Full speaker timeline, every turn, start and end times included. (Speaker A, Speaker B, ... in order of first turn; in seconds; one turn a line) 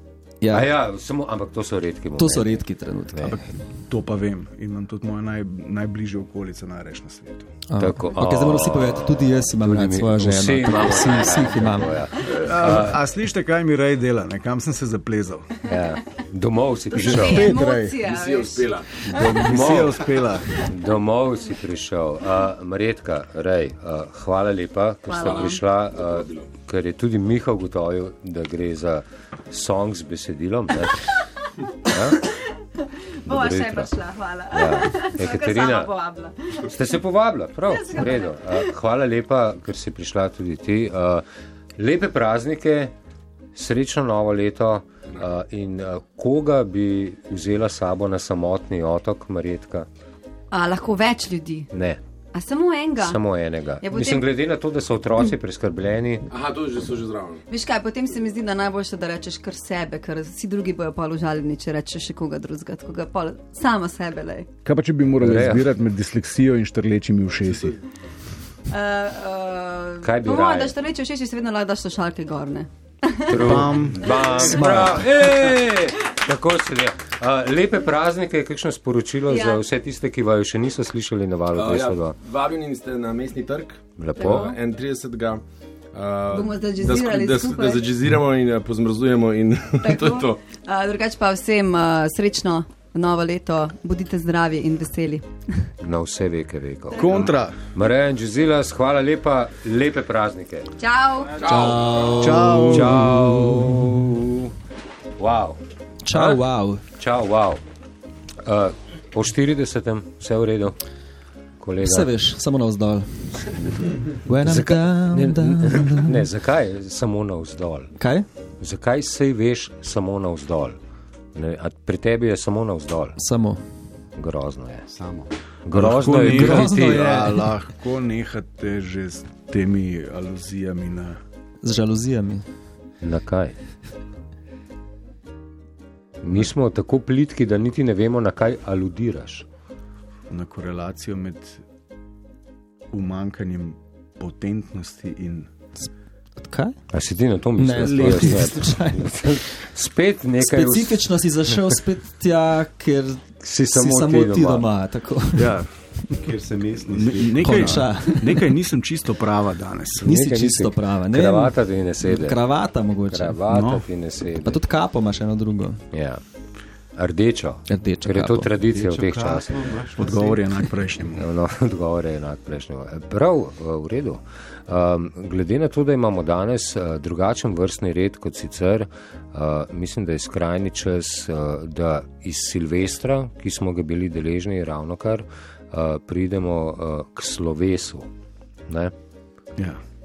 Speaker A: 0.4-0.7
Speaker B: 0.5-3.4
Speaker A: 2.2-3.3
Speaker C: 3.3-7.5
Speaker A: 7.7-11.9
Speaker B: 7.8-13.0
Speaker C: 12.2-15.5
Speaker B: 15.7-17.6
Speaker C: 16.9-18.0
Speaker D: 17.0-18.7
Speaker E: 18.0-19.1
Speaker C: 19.1-20.6
Speaker B: 19.2-20.0
Speaker B: 20.7-31.1
Speaker D: 25.1-25.6
Speaker E: 25.1-26.5
Speaker B: 31.8-32.2
Speaker D: 33.2-36.7
Speaker B: 33.3-34.0
Speaker B: 34.5-35.9
Speaker B: 36.7-41.2
Speaker D: 37.7-38.6
Speaker B: 41.8-42.9
Speaker B: 43.5-49.9
Speaker D: 50.5-51.7
Speaker B: 51.7-52.0
Speaker D: 52.3-53.2
Speaker B: 53.0-56.3
Speaker D: 53.8-54.3
Speaker E: 56.3-57.5
Speaker D: 57.5-64.5
Speaker C: 64.7-67.8
Speaker B: 65.2-65.7
Speaker E: 67.4-67.7
Speaker D: 68.7-73.6
Speaker B: 70.0-70.8
Speaker B: 73.3-82.2
Speaker C: 73.3-74.8
Speaker A: 74.4-75.0
Speaker D: 79.3-79.6
Speaker E: 81.5-90.4
Speaker B: 84.0-84.5
Speaker D: 84.2-84.6
Speaker D: 86.3-87.9
Speaker D: 89.8-95.6
Speaker B: 95.8-100.7
Speaker C: 96.9-97.6
Speaker D: 100.8-101.4
Speaker E: 101.4-102.1
Speaker A: 101.5-102.7
Speaker C: 102.2-103.7
Speaker B: 102.5-104.5
Speaker B: 105.2-105.6
Speaker A: 106.1-106.8
Speaker B: 106.1-106.5
Speaker B: 107.0-107.6
Speaker B: 108.4-110.8
Speaker B: 111.6-112.1
Speaker A: 111.8-113.4
Speaker A: 114.3-116.2
Speaker B: 114.4-118.0
Speaker B: 118.6-120.8
Speaker B: 121.3-123.2
Speaker A: 123.2-123.6
Speaker B: 124.2-124.8
Speaker F: 124.9-125.3
Speaker B: 125.7-127.1
Speaker C: 125.7-131.2
Speaker A: 126.3-127.5
Speaker A: 131.6-132.4
Speaker B: 133.0-133.6
Speaker B: 136.2-139.5
Speaker C: 140.3-141.6
Speaker C: 142.9-145.5
Speaker A: 146.4-146.8
Speaker B: 146.9-151.2
Speaker A: 147.6-149.2
Speaker C: 147.8-148.4
Speaker A: 150.4-155.6
Speaker B: 153.4-154.7
Speaker C: 155.4-155.7
Speaker F: 156.1-157.9
Speaker C: 156.9-160.1
Speaker A: 157.4-158.5
Speaker B: 160.0-162.4
Speaker A: 160.0-163.4
Speaker B: 163.1-164.6
Speaker C: 163.5-163.9
Speaker A: 164.4-165.8
Speaker B: 165.9-166.2
Speaker B: 167.0-169.8
Speaker A: 167.7-168.5
Speaker F: 168.6-170.6
Speaker C: 170.0-171.3
Speaker B: 171.2-188.1
Speaker B: 188.7-188.9